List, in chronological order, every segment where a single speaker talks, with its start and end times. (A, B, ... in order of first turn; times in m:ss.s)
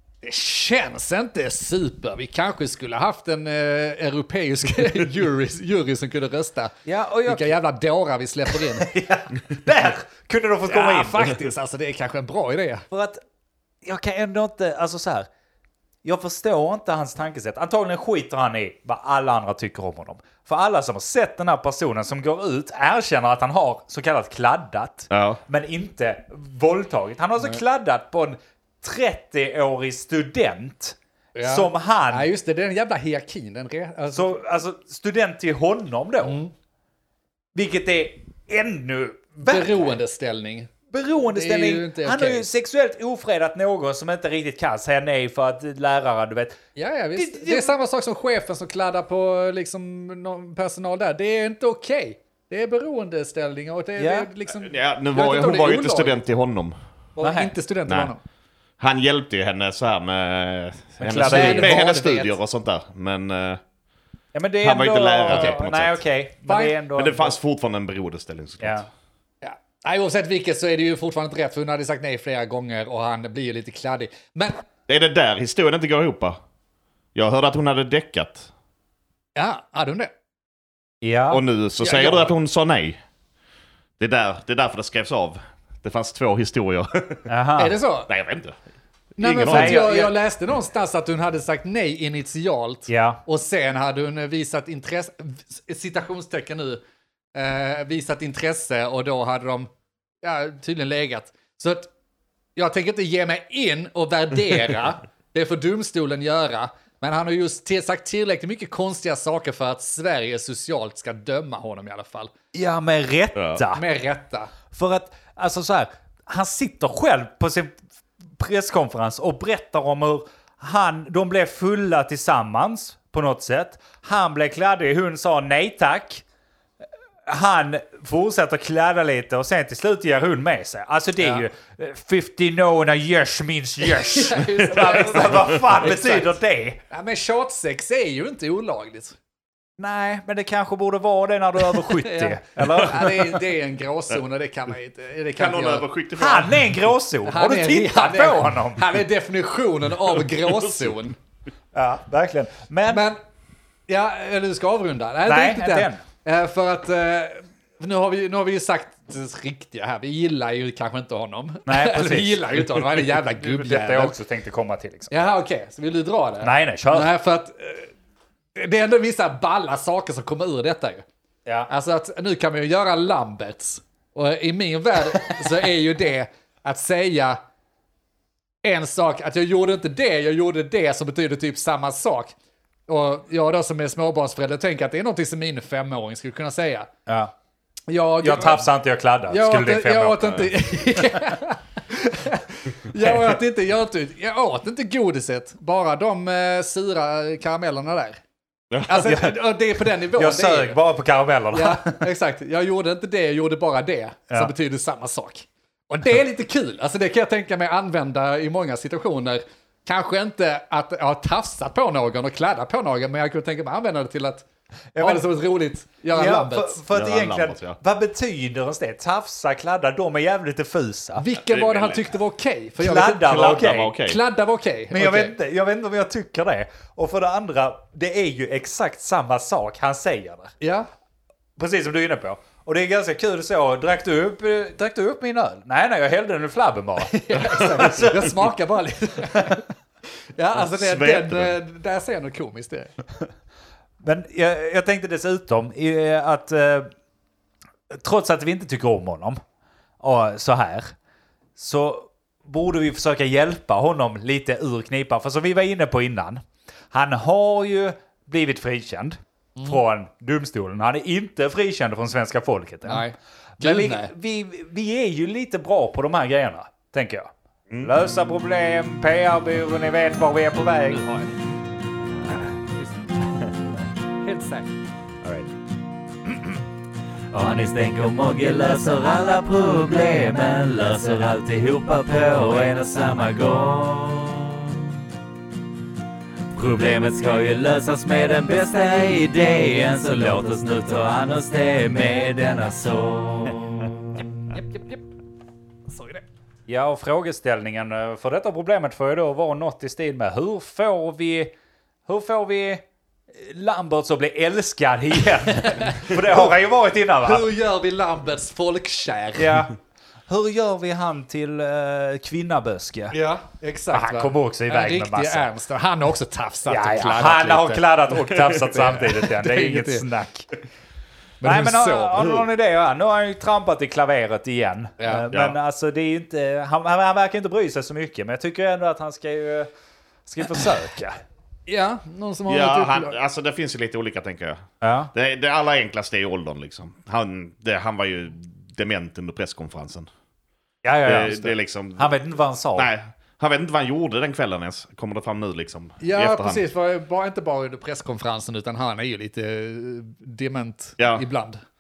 0:00.2-0:06.8 A
0:06.9-0:07.5 B
0:07.3-0:08.9 A
0:08.5-0:11.4 B
0:10.7-0:12.8 A
0:12.9-0:13.2 B
0:13.8-0:15.3 B
0:16.0-0:32.3 B
0:25.1-0:25.4 C
0:31.4-0:34.4 A
0:34.1-0:36.4 B
0:36.2-0:36.5 A
0:37.6-0:39.8 B
0:39.5-0:40.7 A
0:40.9-0:46.6 B
0:41.3-0:42.5 A
0:46.8-0:56.2 A
0:47.2-0:47.7 B
0:54.0-0:54.3 B
0:54.6-0:56.7 C
0:57.2-0:58.2 A
0:57.2-0:57.5 B
0:58.8-1:03.6 C
1:01.0-1:01.8 B
1:01.2-1:02.4 A
1:04.3-1:07.4 B
1:04.6-1:06.0 C
1:06.5-1:06.8 A
1:07.0-1:08.8 C
1:08.6-1:08.9 B
1:09.4-1:14.6 A
1:14.9-1:16.4 C
1:17.2-1:18.5 C
1:19.4-1:20.1 A
1:21.0-1:21.4 B
1:21.3-1:23.0 C
1:21.8-1:22.3 A
1:24.0-1:27.3 C
1:27.3-1:27.8 B
1:27.6-1:28.1 A
1:28.1-1:28.6 C
1:29.2-1:29.9 C
1:29.2-1:36.8 A
1:29.5-1:30.1 B
1:32.9-1:33.2 B
1:37.3-1:39.7 A
1:40.2-1:41.9 A
1:42.6-1:52.3 A
1:52.5-1:53.8 B
1:53.4-1:53.6 C
1:53.7-1:54.5 A
1:54.7-1:57.8 B
1:58.4-2:06.2 B
2:07.3-2:16.8 B
2:11.2-2:11.5 A
2:13.9-2:16.4 A
2:16.9-2:19.2 A
2:19.8-2:23.4 B
2:21.7-2:25.9 A
2:25.4-2:26.7 C
2:26.2-2:28.8 B
2:27.3-2:31.2 A
2:31.7-2:33.0 B
2:32.9-2:33.2 A
2:33.9-2:44.2 A
2:35.3-2:36.0 B
2:41.7-2:45.1 B
2:45.1-2:47.9 A
2:46.4-2:47.1 B
2:48.6-2:51.0 A
2:51.7-2:57.4 A
2:55.2-2:55.5 B
2:58.6-3:02.3 A
3:02.9-3:06.9 A
3:07.1-3:07.3 B
3:07.9-3:08.7 A
3:08.2-3:10.5 B
3:09.3-3:18.2 A
3:18.7-3:19.2 C
3:18.9-3:20.8 A
3:19.0-3:19.4 B
3:20.1-3:22.0 B
3:21.5-3:34.4 A
3:35.0-3:35.3 B
3:35.0-3:36.8 A
3:36.1-3:41.2 B
3:36.9-3:37.8 C
3:41.2-3:45.4 A
3:41.4-3:42.2 C
3:42.8-3:43.9 B
3:43.2-3:44.2 C
3:44.9-3:50.5 B
3:50.6-3:50.9 A
3:51.6-3:58.3 B
3:57.0-3:59.6 A
4:00.4-4:02.9 A
4:00.6-4:01.6 C
4:04.0-4:06.9 B
4:07.9-4:09.4 B
4:10.0-4:10.9 B
4:11.6-4:23.0 B
4:22.9-4:24.1 A
4:23.6-4:31.0 B
4:31.0-4:31.3 A
4:34.2-4:34.7 A
4:35.2-4:35.5 B
4:37.3-4:44.9 D
4:46.5-4:54.2 D
4:54.5-4:55.0 A
4:55.9-4:56.2 A
4:56.7-5:01.5 B
5:02.1-5:02.8 B
5:03.3-5:07.5 B
5:05.6-5:06.6 A
5:07.2-5:09.6 A
5:09.4-5:09.8 B
5:10.3-5:13.2 B
5:13.1-5:17.8 A
5:13.9-5:15.5 B
5:16.7-5:20.5 B
5:18.7-5:20.1 A
5:21.4-5:22.4 A
5:21.4-5:29.7 B
5:25.0-5:25.2 A
5:30.3-5:31.2 B
5:31.7-5:33.1 A
5:32.5-5:40.1 C
5:34.8-5:35.1 B
5:40.8-5:42.9 B
5:41.0-5:42.1 C
5:42.8-5:46.6 C
5:46.0-5:51.6 A
5:51.0-5:51.2 C